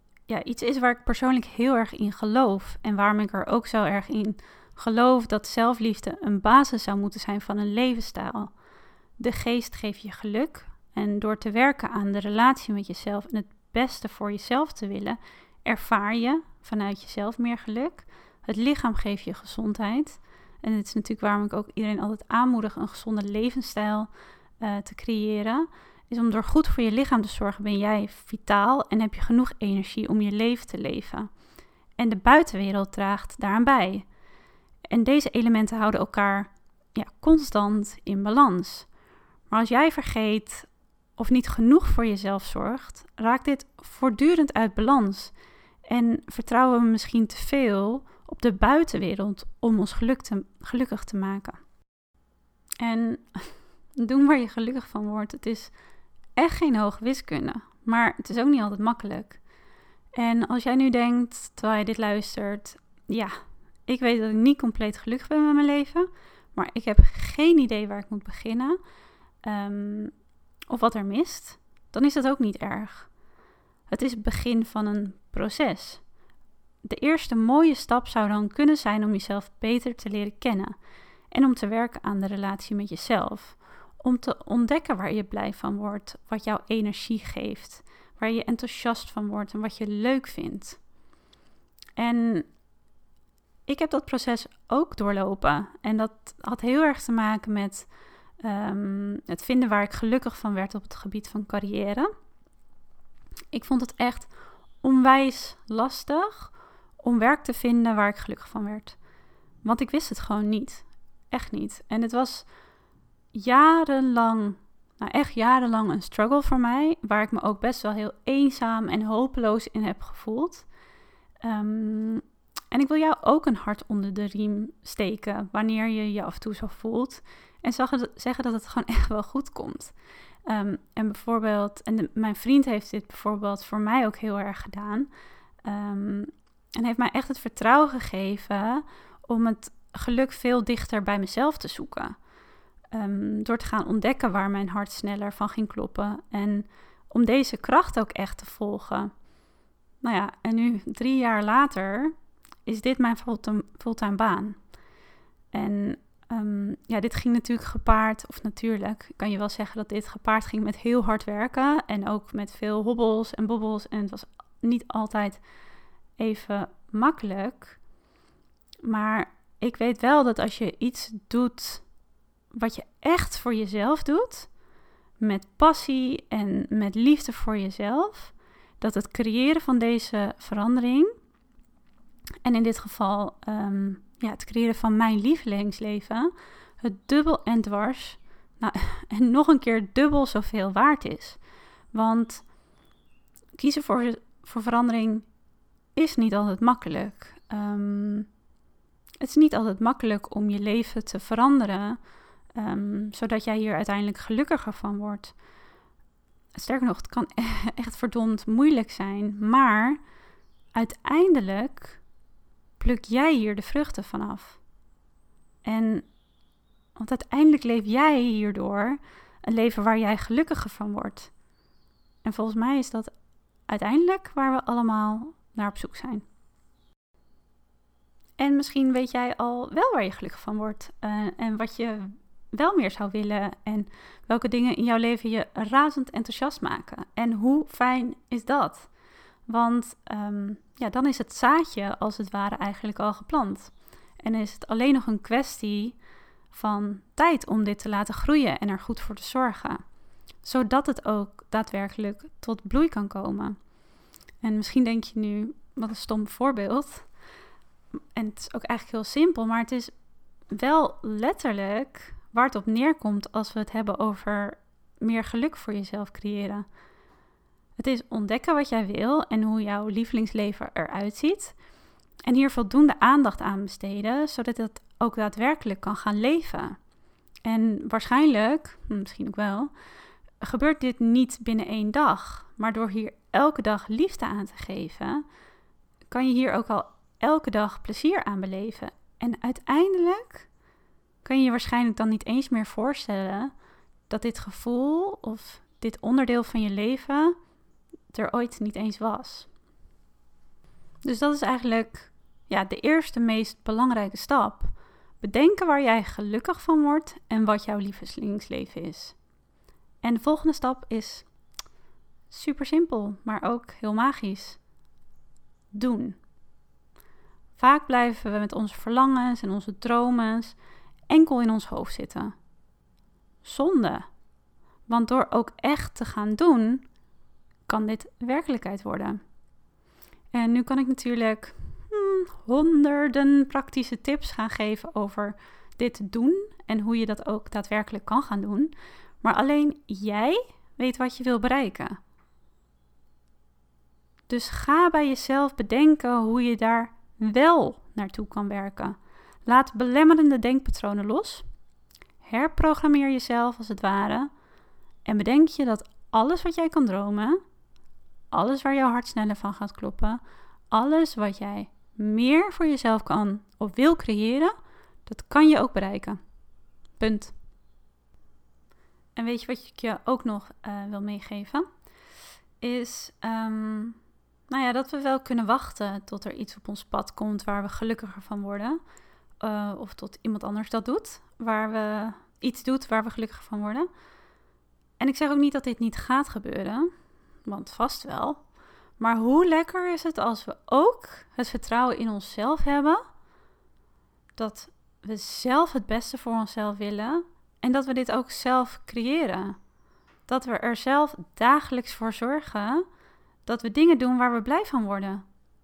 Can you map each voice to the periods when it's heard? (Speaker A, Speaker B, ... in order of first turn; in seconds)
Speaker A: 0.3-8.5, 9.2-24.1, 24.6-31.3, 32.0-34.1, 34.9-38.9, 39.5-45.3, 45.9-51.6, 52.8-55.7, 56.4-59.4, 60.2-68.8, 69.4-70.1, 70.7-73.1, 73.9-76.0, 76.8-80.8, 81.3-90.8, 92.0-92.5, 93.7-102.1, 103.5-109.0, 109.6-112.5, 113.3-120.7, 121.4-129.9, 130.5-135.1, 135.6-142.2, 142.9-149.1, 150.0-152.2, 152.7-154.6, 155.5-165.4, 166.2-167.8, 168.8-171.8, 172.5-174.5, 175.2-181.1, 182.4-191.4, 191.9-192.5, 193.6-195.3, 196.0-198.3, 199.2-202.0, 202.6-205.3, 206.6-210.0, 210.7-212.0, 212.8-214.6, 215.6-216.1, 217.0-221.3, 222.2-223.1, 223.7-226.2, 228.4-238.9, 239.5-246.0, 246.5-249.8, 250.4-253.6, 254.4-257.1, 258.1-259.9, 260.5-266.7, 267.8-271.6, 272.2-276.8, 277.4-279.7, 280.4-285.2, 286.1-290.5, 291.2-293.5, 294.1-297.4, 298.1-299.5, 301.0-309.2, 310.0-311.3, 312.3-314.6, 315.7-316.2, 317.6-320.6, 321.1-322.4, 323.4-324.1, 324.9-326.8, 327.7-329.2, 330.3-342.0, 344.3-351.4, 352.2-354.3, 355.1-357.4, 358.3-364.5, 365.1-366.2, 367.0-367.3, 369.2-371.7, 372.6-378.8, 379.4-383.9, 385.0-386.9, 387.4-388.4, 389.0-393.0, 394.4-399.6, 400.3-402.9, 403.5-405.2